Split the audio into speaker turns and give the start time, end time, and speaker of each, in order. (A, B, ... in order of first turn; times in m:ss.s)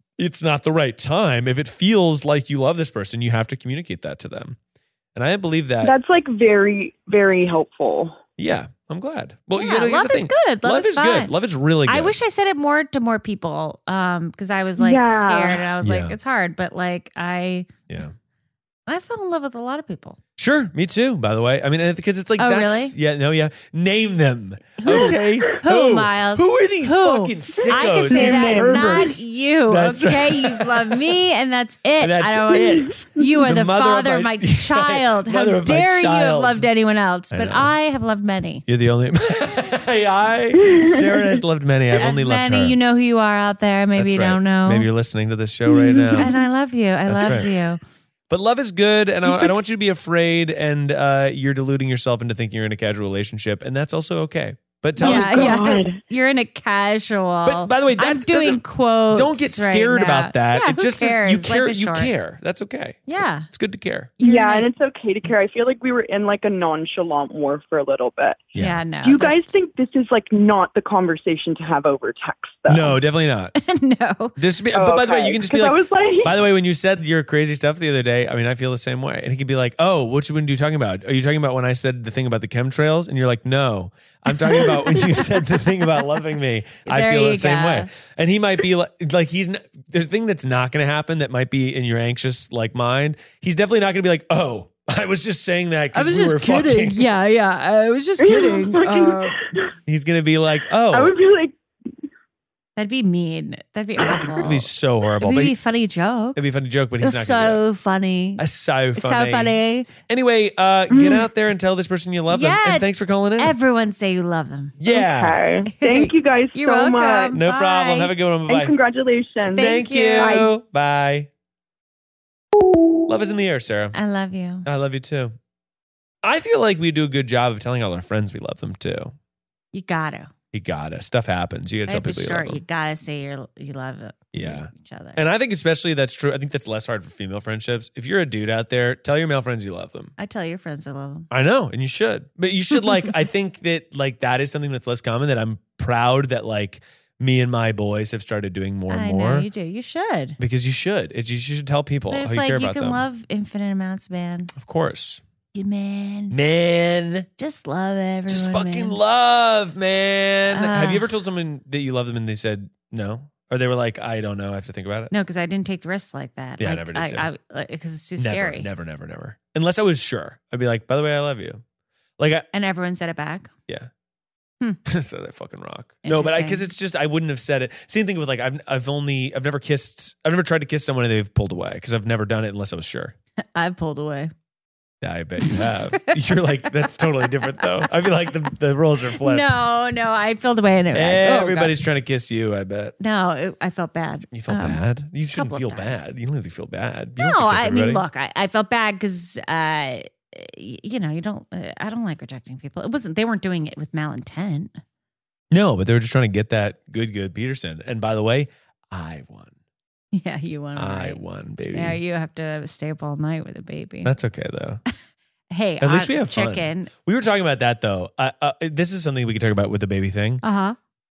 0:00.2-0:04.6 A
0:05.1-0:05.9 A
0:05.8-0:08.2 B
0:08.4-0:12.2 A
0:09.5-0:11.3 C
0:11.8-0:17.7 C
0:14.8-0:15.7 B
0:15.8-0:16.1 A
0:18.9-0:20.2 C
0:20.4-0:31.2 A
0:22.4-0:22.9 C
0:24.8-0:38.6 C
0:27.6-0:29.2 B
0:32.0-0:36.7 A
0:32.6-0:32.9 B
0:37.3-0:37.7 A
0:38.7-0:42.8 A
0:40.6-0:41.4 B
0:41.9-0:44.9 C
0:44.0-0:46.3 A
0:45.6-0:46.4 B
0:46.2-0:47.8 C
0:47.1-0:47.5 A
0:48.3-0:55.7 A
0:55.0-0:56.0 B
0:55.0-1:02.1 C
0:57.4-1:04.1 A
1:03.1-1:03.5 C
1:04.2-1:04.7 C
1:04.2-1:08.5 B
1:08.6-1:09.6 C
1:09.0-1:13.0 B
1:12.7-1:13.5 A
1:13.6-1:14.4 C
1:14.4-1:37.1 A
1:14.7-1:16.4 B
1:26.8-1:27.9 C
1:35.9-1:39.4 C
1:38.2-1:39.7 B
1:39.8-1:41.1 A
1:40.9-1:41.5 B
1:42.8-1:44.7 C
1:44.4-1:45.5 A
1:45.2-1:46.4 C
1:46.4-1:47.6 A
1:47.0-1:48.4 C
1:48.4-1:53.5 A
1:49.0-1:49.9 C
1:50.9-1:51.2 B
1:52.3-1:54.8 C
1:54.8-1:55.4 A
1:54.9-1:57.4 B
1:55.7-1:58.1 C
1:57.3-1:58.7 A
1:58.5-1:59.7 B
1:59.4-2:00.4 C
1:59.5-2:01.3 A
2:00.2-2:00.5 B
2:03.1-2:03.9 A
2:03.9-2:04.6 C
2:04.6-2:05.3 A
2:06.2-2:09.1 A
2:09.7-2:10.3 C
2:10.5-2:12.6 A
2:11.9-2:15.2 C
2:14.3-2:20.1 A
2:20.2-2:21.3 C
2:21.3-2:29.5 A
2:28.9-2:30.4 C
2:30.4-2:33.0 A
2:32.1-2:34.5 C
2:34.5-2:35.2 A
2:35.5-2:36.4 C
2:36.3-2:37.3 A
2:37.4-2:39.0 C
2:38.3-2:45.1 A
2:40.5-2:41.1 C
2:45.1-2:48.7 C
2:46.6-2:47.3 A
2:48.2-2:51.6 A
2:52.2-2:52.5 A
2:52.5-2:53.5 C
2:54.8-3:03.1 A
2:56.0-2:56.7 C
3:03.4-3:04.3 C
3:05.0-3:09.6 A
3:05.4-3:05.8 C
3:06.8-3:07.9 C
3:09.2-3:11.8 C
3:10.9-3:12.9 A
3:13.0-3:14.8 C
3:14.3-3:18.0 A
3:15.3-3:16.1 C
3:17.2-3:24.8 C
3:25.5-3:29.5 A
3:30.1-3:31.2 C
3:30.8-3:32.0 A
3:31.7-3:34.1 C
3:34.0-3:34.8 A
3:35.5-3:36.9 C
3:35.8-3:40.4 A
3:40.4-3:40.8 C